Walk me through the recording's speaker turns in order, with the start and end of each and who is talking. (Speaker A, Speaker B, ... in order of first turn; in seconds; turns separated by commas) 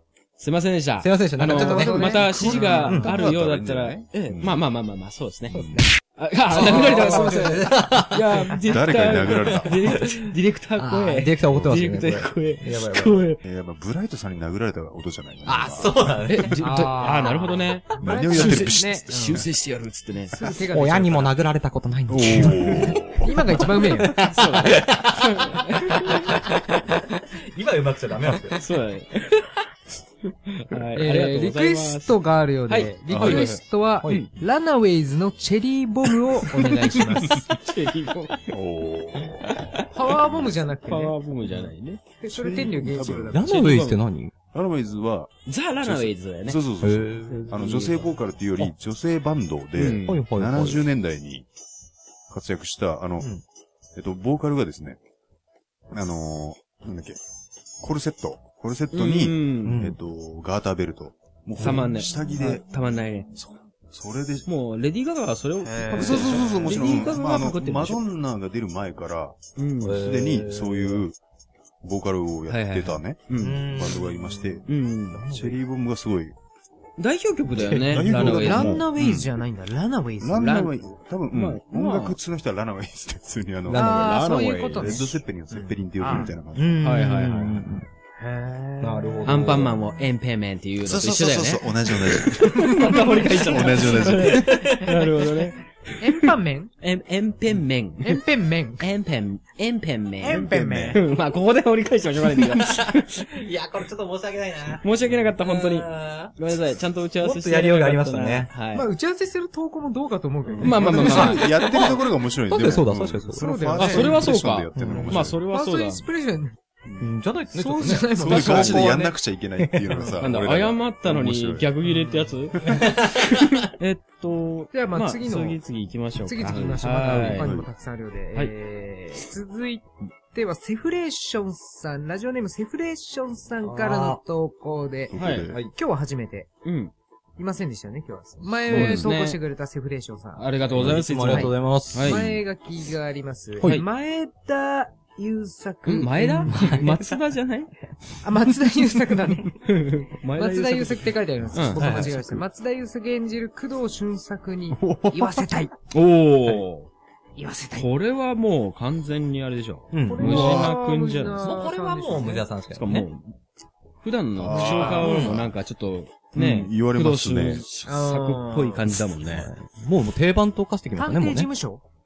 Speaker A: 0.4-13.4, Speaker B: 1.0-3.1, Speaker C: 1.5-3.2, Speaker D: 2.1-4.6, Speaker D: 5.5-5.8, Speaker B: 5.5-5.8, Speaker B: 6.5-8.5, Speaker C: 6.5-7.6, Speaker D: 8.7-9.8, Speaker B: 9.2-10.1, Speaker B: 10.8-13.2, Speaker D: 11.5-11.8, Speaker D: 13.4-16.6, Speaker B: 15.4-16.6, Speaker A: 16.3-20.4, Speaker C: 16.6-19.4, Speaker D: 18.0-19.5, Speaker C: 20.3-21.3, Speaker B: 20.7-22.9, Speaker D: 22.1-23.4, Speaker C: 23.2-24.3, Speaker B: 24.0-25.3, Speaker A: 24.1-26.4, Speaker B: 25.9-28.6, Speaker A: 28.5-29.4, Speaker A: 30.5-34.3, Speaker C: 30.9-37.5, Speaker D: 33.1-33.6, Speaker A: 37.2-38.5, Speaker D: 38.5-39.5, Speaker C: 39.9-41.2, Speaker D: 40.2-40.6, Speaker A: 40.9-42.0, Speaker C: 42.2-43.5, Speaker D: 42.3-43.4, Speaker B: 43.3-44.3, Speaker A: 43.4-44.0, Speaker D: 44.5-51.5, Speaker A: 45.5-46.6, Speaker B: 46.8-47.5, Speaker A: 47.3-48.7, Speaker A: 49.8-50.2, Speaker B: 50.0-50.9, Speaker D: 52.3-53.3, Speaker D: 54.0-55.0, Speaker D: 55.9-57.2, Speaker D: 57.8-62.6, Speaker A: 58.9-59.9, Speaker B: 59.6-60.0, Speaker A: 61.6-63.3, Speaker D: 63.9-64.5, Speaker A: 64.5-68.0, Speaker D: 65.9-71.2, Speaker B: 65.9-66.7, Speaker A: 69.6-70.0, Speaker B: 69.8-71.0, Speaker D: 71.8-74.7, Speaker A: 72.5-73.6, Speaker B: 73.4-75.6, Speaker A: 74.7-75.2, Speaker D: 75.3-76.3, Speaker A: 77.0-78.8, Speaker B: 77.5-78.1, Speaker D: 77.8-79.3, Speaker C: 78.1-80.6, Speaker D: 80.2-84.2, Speaker A: 80.4-80.7, Speaker A: 81.3-82.2, Speaker A: 83.7-85.0, Speaker C: 83.7-86.3, Speaker D: 84.7-86.8, Speaker B: 86.5-87.8, Speaker A: 86.8-87.6, Speaker C: 88.2-89.4, Speaker B: 88.8-89.7, Speaker A: 89.2-96.3, Speaker D: 90.8-94.8, Speaker C: 92.9-95.0, Speaker C: 96.0-96.7, Speaker A: 96.8-98.2, Speaker C: 98.0-98.9, Speaker A: 98.8-103.3, Speaker C: 100.2-101.0, Speaker D: 100.3-101.0, Speaker B: 102.7-104.8, Speaker A: 104.8-108.9, Speaker B: 105.4-106.3, Speaker B: 107.2-108.5, Speaker C: 108.7-111.5, Speaker D: 110.6-115.4, Speaker A: 110.6-111.4, Speaker B: 111.0-113.5, Speaker C: 113.4-114.3, Speaker A: 113.8-116.0, Speaker B: 114.7-115.2, Speaker C: 115.5-116.5, Speaker B: 117.0-118.6, Speaker C: 117.5-119.1, Speaker D: 118.2-121.7, Speaker A: 118.3-118.8, Speaker B: 119.6-120.0, Speaker A: 120.2-127.5, Speaker C: 121.8-122.3, Speaker B: 122.7-123.1, Speaker C: 124.7-125.6, Speaker C: 126.2-136.5, Speaker D: 126.5-127.7, Speaker B: 133.6-134.2, Speaker D: 135.1-135.6, Speaker A: 135.2-135.5, Speaker A: 136.6-136.9, Speaker C: 137.4-146.9, Speaker A: 138.7-139.4, Speaker D: 138.7-139.1, Speaker A: 140.3-142.2, Speaker B: 140.7-142.2, Speaker D: 142.1-142.4, Speaker A: 145.8-147.7, Speaker B: 146.5-147.0, Speaker C: 148.2-149.7, Speaker A: 149.6-151.9, Speaker C: 150.3-155.7, Speaker B: 151.8-152.2, Speaker D: 151.8-152.4, Speaker D: 154.7-155.6, Speaker A: 155.9-156.9, Speaker C: 157.3-157.9, Speaker A: 157.7-161.4, Speaker B: 159.9-160.7, Speaker C: 160.0-162.5, Speaker B: 161.4-163.1, Speaker A: 162.7-163.3, Speaker A: 164.0-169.5, Speaker D: 164.3-165.5, Speaker C: 164.5-165.3, Speaker B: 164.8-165.4, Speaker D: 166.3-167.6, Speaker C: 167.8-168.8, Speaker B: 169.2-171.5, Speaker C: 171.0-171.8